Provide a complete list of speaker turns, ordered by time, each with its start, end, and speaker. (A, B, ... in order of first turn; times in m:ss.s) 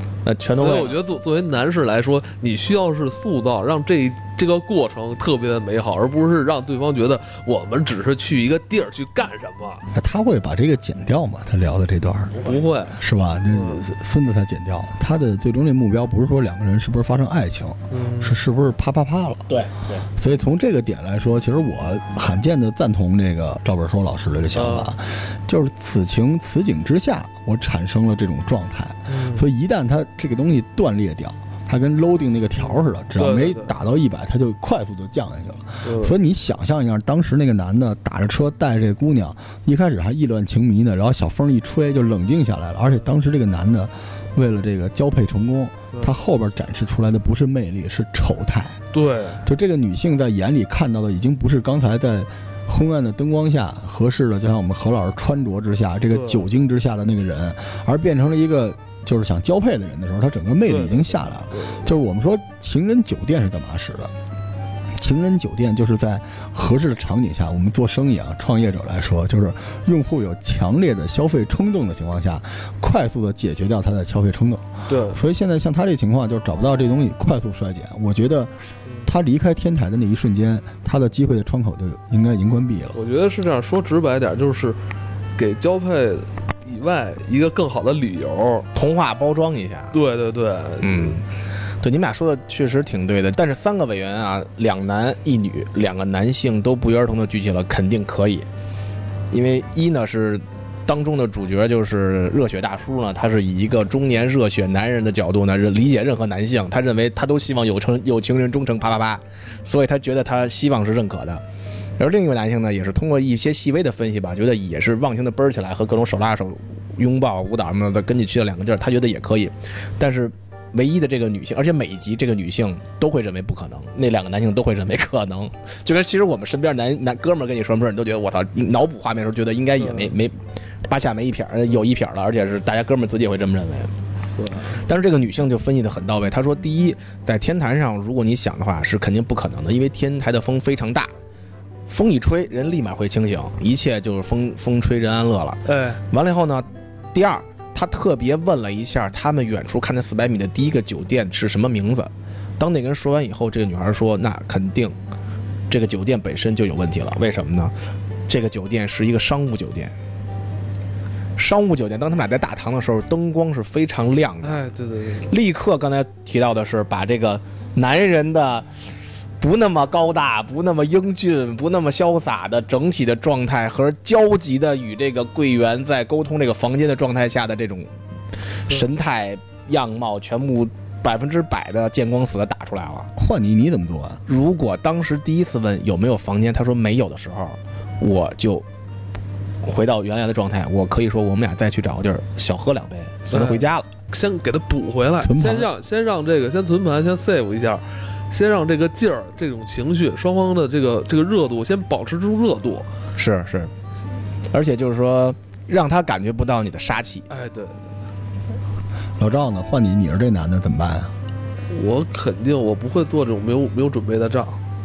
0:00.2-0:01.0 A
0:00.5-0:09.8 B
0:09.9-0:12.4 C
0:12.3-0:12.7 A
0:12.4-0:13.0 B
0:13.0-0:19.5 C
0:13.5-0:13.8 B
0:17.9-0:18.4 B
0:19.5-0:20.1 A
0:20.2-0:48.8 C
0:24.5-0:25.0 B
0:29.1-0:29.4 B
0:32.6-0:33.7 B
0:35.8-0:36.2 B
0:48.9-0:49.4 B
0:49.4-1:04.1 C
0:56.1-0:56.4 B
1:00.6-1:01.9 B
1:05.0-1:18.5 C
1:14.9-1:15.2 B
1:19.0-1:23.0 C
1:22.9-1:24.8 B
1:25.4-1:28.7 B
1:28.8-1:30.0 A
1:29.9-1:31.2 B
1:30.8-1:31.3 A
1:31.8-1:38.5 A
1:39.3-1:51.4 A
1:52.0-2:13.9 A
2:09.8-2:10.2 B
2:14.4-2:14.8 B
2:14.8-2:21.1 A
2:21.9-2:35.0 A
2:25.7-2:26.0 B
2:35.7-2:37.7 A
2:38.3-2:39.9 A
2:41.4-2:44.6 A
2:44.4-2:45.4 B
2:45.3-2:57.9 A
2:58.6-3:03.1 A
3:03.2-3:04.2 C
3:04.3-3:08.7 A
3:09.6-3:13.9 A
3:13.3-3:22.9 B
3:15.2-3:15.7 C
3:23.2-3:23.7 A
3:24.5-3:27.3 A
3:27.3-3:28.0 B
3:29.2-3:31.1 C
3:31.7-3:34.6 B